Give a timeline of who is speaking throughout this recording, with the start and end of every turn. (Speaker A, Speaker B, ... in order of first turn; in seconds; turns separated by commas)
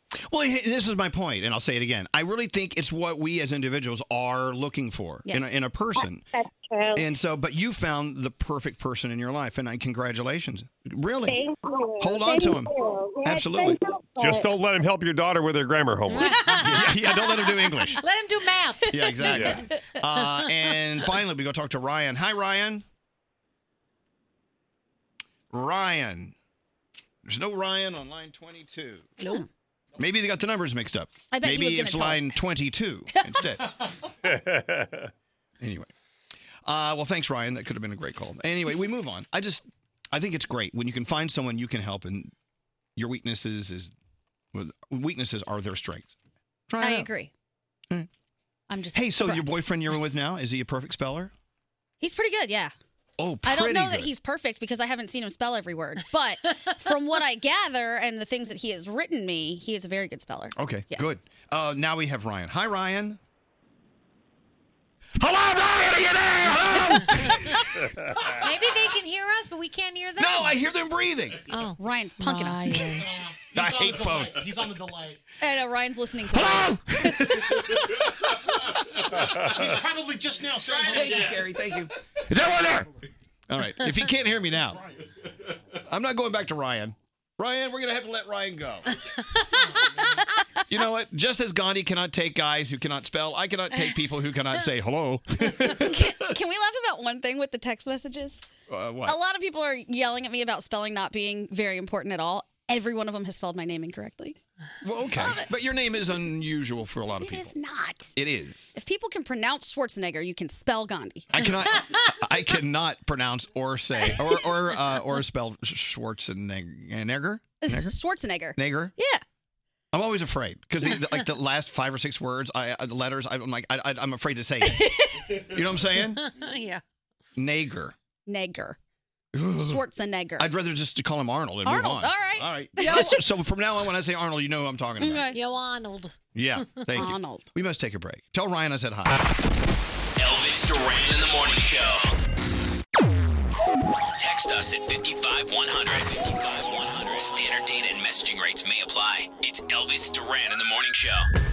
Speaker A: 0.3-6.3, Speaker B: 5.3-5.5, Speaker C: 6.3-7.0, Speaker A: 6.9-11.4, Speaker C: 11.3-14.4, Speaker A: 12.0-13.8, Speaker D: 14.2-16.4, Speaker E: 16.1-16.9, Speaker A: 16.6-18.0, Speaker E: 18.0-19.6, Speaker A: 18.9-22.8, Speaker E: 20.1-20.5, Speaker A: 25.5-26.3, Speaker A: 27.2-29.3, Speaker A: 30.0-33.6, Speaker B: 31.3-32.4, Speaker D: 34.5-34.8, Speaker A: 35.6-35.9, Speaker A: 36.6-42.3, Speaker A: 43.0-43.9, Speaker A: 44.5-46.1, Speaker A: 46.7-47.1, Speaker B: 46.8-47.3, Speaker B: 48.7-49.6, Speaker A: 48.9-51.3, Speaker B: 52.0-52.7, Speaker A: 53.2-54.1, Speaker B: 53.4-61.2, Speaker A: 60.6-63.2, Speaker A: 65.2-66.9, Speaker E: 66.4-67.5, Speaker E: 68.3-70.5, Speaker A: 70.2-71.5, Speaker E: 71.5-73.0, Speaker B: 71.8-73.0, Speaker F: 73.1-75.2, Speaker A: 73.5-74.4, Speaker B: 75.4-77.5, Speaker F: 79.5-81.4, Speaker A: 80.8-81.9, Speaker A: 83.5-84.8, Speaker A: 85.9-88.8, Speaker A: 90.7-96.1, Speaker B: 95.8-98.4, Speaker A: 98.7-99.2, Speaker B: 99.0-104.4, Speaker A: 104.8-107.5, Speaker B: 107.2-108.1, Speaker A: 108.2-108.7, Speaker B: 108.8-111.3, Speaker A: 111.3-117.9, Speaker B: 117.6-119.2, Speaker A: 118.5-118.9, Speaker A: 119.9-124.8, Speaker B: 124.7-125.0, Speaker A: 125.5-126.2, Speaker E: 126.1-126.8, Speaker A: 127.3-127.9, Speaker B: 128.2-128.8, Speaker A: 129.3-129.8, Speaker B: 129.6-130.5, Speaker A: 130.4-135.2, Speaker B: 131.6-133.2, Speaker B: 135.0-135.4, Speaker E: 135.3-136.2, Speaker A: 136.3-139.2, Speaker B: 136.9-137.5, Speaker G: 140.2-142.1, Speaker G: 144.2-151.3